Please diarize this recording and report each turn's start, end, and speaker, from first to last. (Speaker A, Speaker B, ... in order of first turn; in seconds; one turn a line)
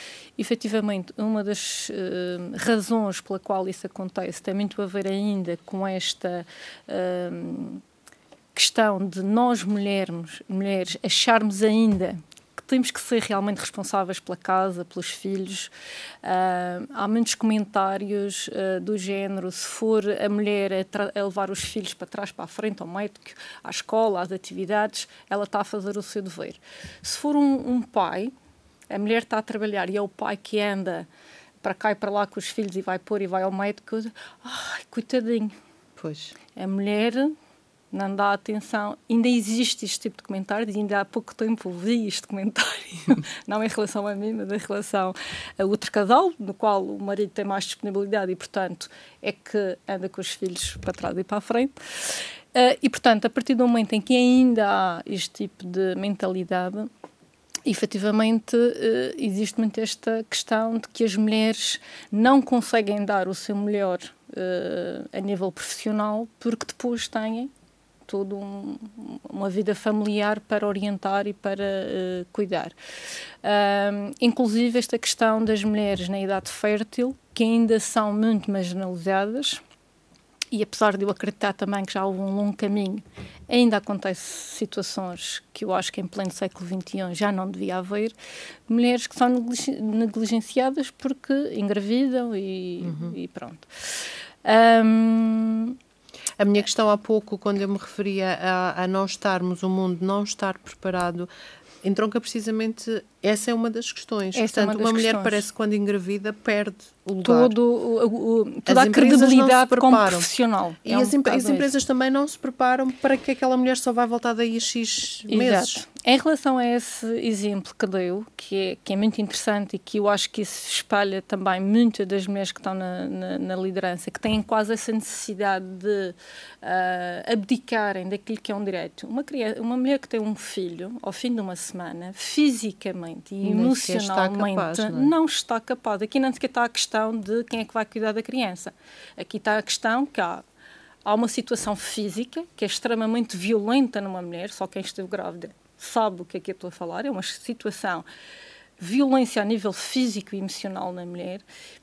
Speaker A: 0.4-7.8
Speaker A: 8.5-15.7
Speaker A: 16.2-28.3
Speaker A: 28.9-31.1
Speaker A: 31.6-35.6
Speaker B: 36.0-36.4
Speaker A: 36.5-37.3
Speaker A: 37.9-56.9
Speaker A: 57.6-67.5
Speaker A: 68.1-72.8
Speaker A: 73.4-79.6
Speaker A: 80.5-88.1
Speaker A: 88.7-95.8
Speaker B: 92.8-93.2
Speaker B: 96.4-101.3
Speaker B: 101.8-107.5
Speaker A: 104.3-105.4
Speaker A: 107.2-111.7
Speaker B: 108.7-110.3
Speaker B: 110.8-115.8
Speaker A: 115.3-140.4
Speaker B: 133.4-135.1
Speaker A: 141.1-148.1
Speaker A: 148.8-151.4